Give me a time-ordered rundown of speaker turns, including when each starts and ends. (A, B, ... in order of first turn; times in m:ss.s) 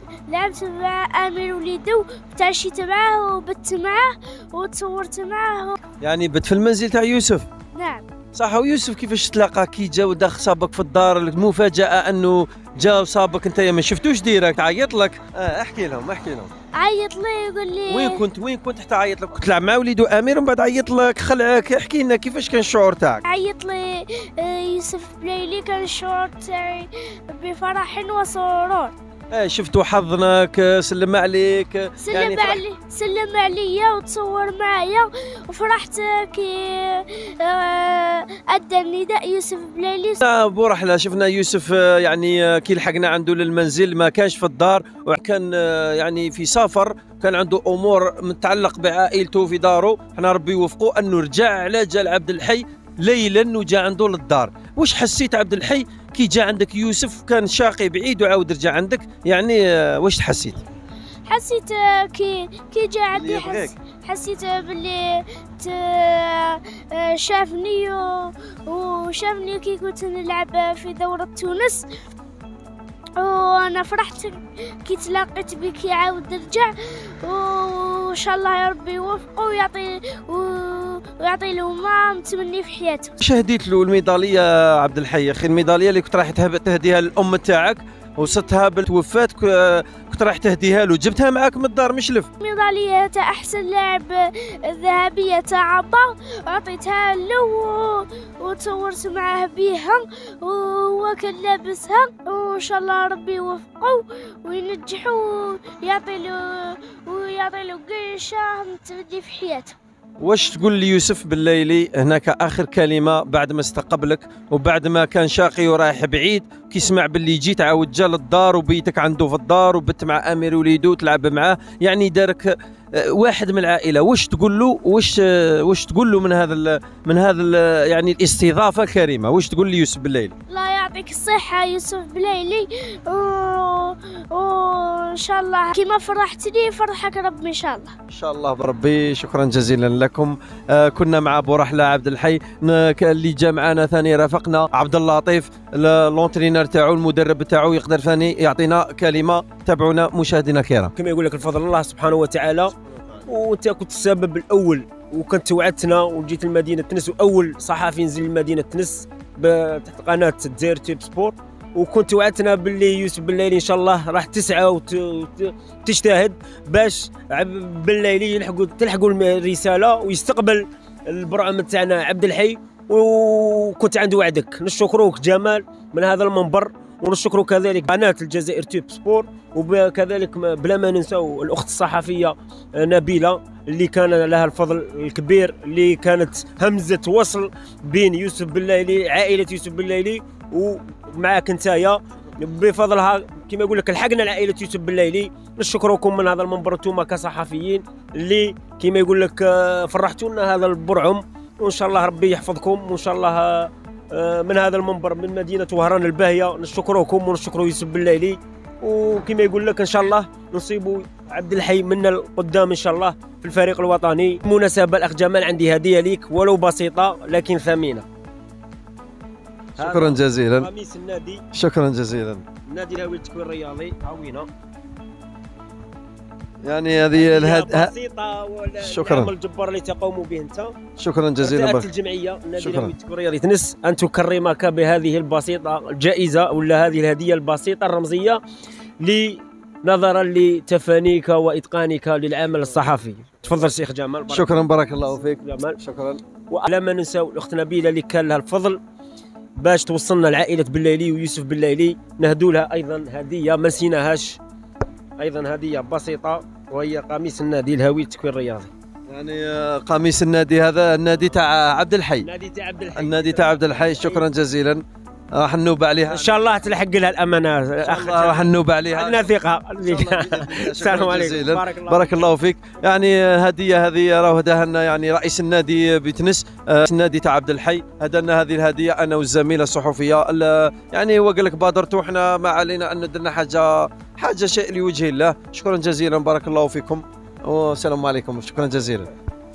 0:00.3-0:05.8 A
0:06.0-0:07.5 B
0:07.7-0:08.0 A
0:08.4-0:16.5 B
0:16.8-0:18.2 A
0:17.9-0:23.2 B
0:23.3-0:29.0 A
0:29.3-0:32.6 B
0:32.0-0:40.2 A
0:40.2-1:00.6 B
1:01.3-1:11.9 A
1:03.1-1:03.7 B
1:13.2-1:23.2 A
1:23.2-1:32.3 B
1:32.4-1:49.8 A
1:50.2-2:10.4 B
2:10.5-2:17.9 A
2:18.1-2:30.9 B
2:31.0-3:38.1 C
3:39.8-3:40.7 B
3:39.8-3:41.4 C
3:41.5-3:42.4 B
3:42.7-3:44.5 C
3:46.6-3:47.9 B
3:47.1-3:50.8 C
3:48.8-3:49.3 B
3:51.0-3:51.9 B
3:51.4-3:58.4 C
3:52.6-3:52.9 B
3:59.0-4:05.8 C
4:04.3-4:06.2 B
4:06.5-4:08.8 C
4:09.6-4:14.4 C
4:15.2-4:18.7 C
4:19.1-4:22.3 B
4:22.2-4:24.2 C
4:23.0-4:24.8 B
4:25.3-4:26.4 B
4:26.1-4:32.3 C
4:27.8-4:29.3 B
4:29.8-4:49.1 B